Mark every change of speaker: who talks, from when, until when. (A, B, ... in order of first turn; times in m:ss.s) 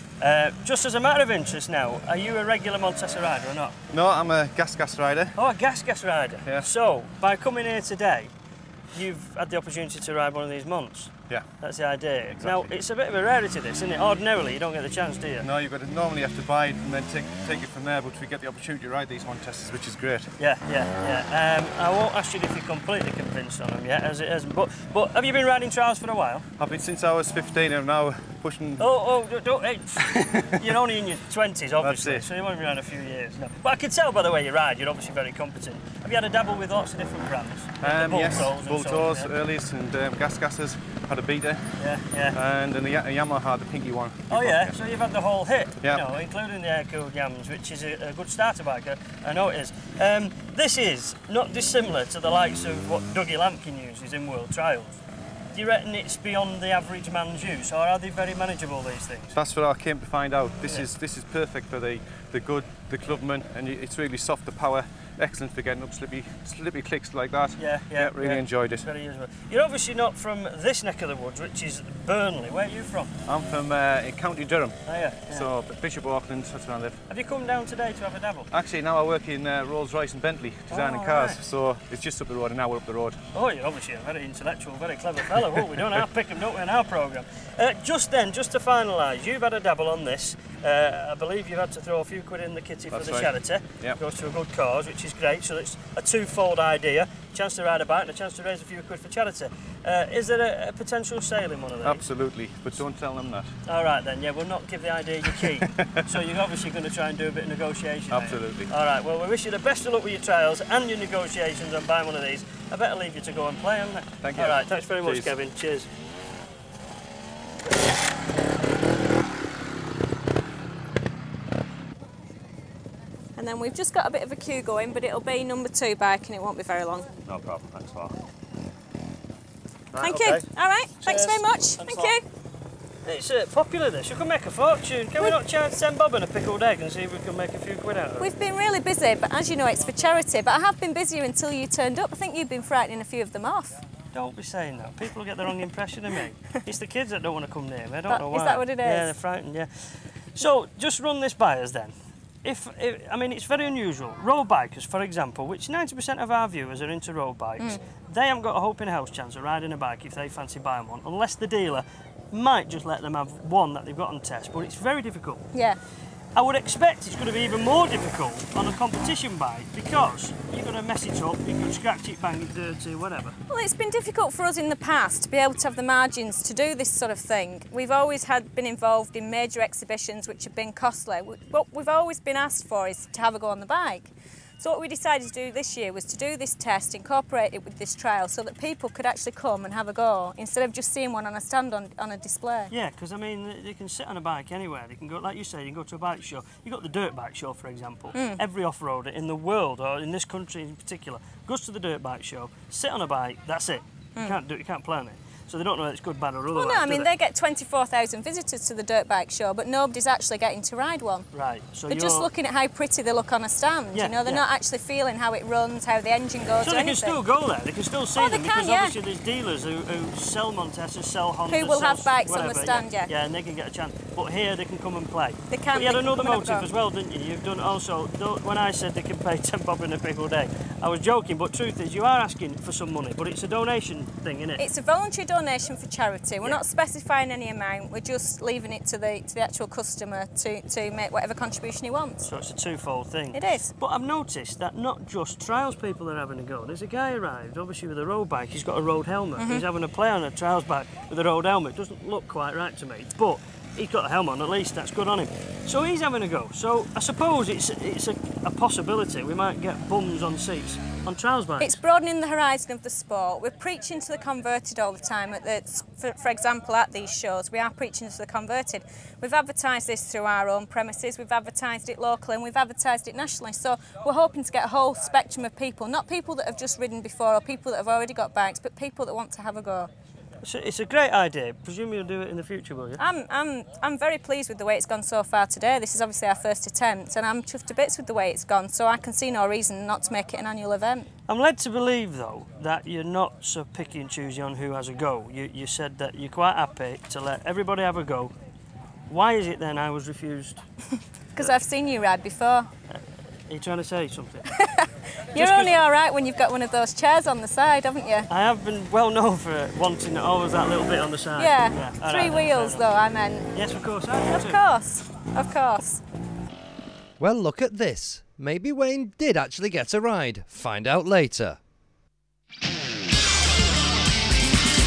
0:00.2-0:03.8 A
0:03.9-0:05.4 B
0:05.4-0:08.3 A
0:06.4-0:06.7 B
0:08.9-0:15.5 A
0:12.4-0:12.7 B
0:15.4-0:20.3 B
0:20.4-0:26.4 A
0:26.6-0:28.9 B
0:28.8-0:39.3 A
0:30.2-0:30.5 B
0:31.8-0:32.2 B
0:37.8-0:41.7 B
0:41.8-0:42.4 A
0:42.3-0:44.8 B
0:44.3-0:55.0 A
0:55.5-0:59.4 A
0:59.3-1:08.9 B
1:07.6-1:13.1 A
1:13.2-1:17.0 B
1:14.8-1:15.5 A
1:17.1-1:18.5 A
1:18.5-1:23.2 B
1:20.7-1:21.4 A
1:23.3-1:42.1 A
1:32.9-1:34.0 B
1:41.8-1:43.5 B
1:43.7-1:55.9 A
1:48.1-1:48.7 B
1:54.2-1:55.3 B
2:03.4-2:07.1 C
2:07.2-2:08.1 A
2:09.9-2:10.5 A
2:10.0-2:12.2 C
2:11.0-2:12.1 A
2:13.0-2:18.3 A
2:18.2-2:23.8 C
2:24.1-2:45.4 A
2:28.1-2:29.1 C
2:46.3-2:53.4 A
2:53.5-3:12.7 C
3:12.7-3:27.1 A
3:18.1-3:18.4 C
3:26.5-3:31.3 C
3:31.3-3:32.3 A
3:31.9-3:37.2 C
3:33.9-3:34.4 A
3:36.6-3:54.6 A
3:38.1-3:39.0 C
3:41.5-3:43.1 C
3:45.5-3:46.7 C
3:54.6-4:02.3 C
4:02.2-4:21.8 A
4:03.3-4:03.7 C
4:09.4-4:09.6 C
4:21.6-4:39.9 C
4:40.4-4:43.0 A
4:43.0-4:51.1 C
4:51.3-4:58.3 A
4:59.1-5:00.6 A
5:01.3-5:02.7 C
5:02.9-5:04.5 A
5:04.5-5:08.3 C
5:05.3-5:05.7 A
5:08.3-5:12.9 A
5:11.4-5:13.5 C
5:13.5-5:14.6 A
5:14.3-5:16.0 C
5:17.2-5:21.6 D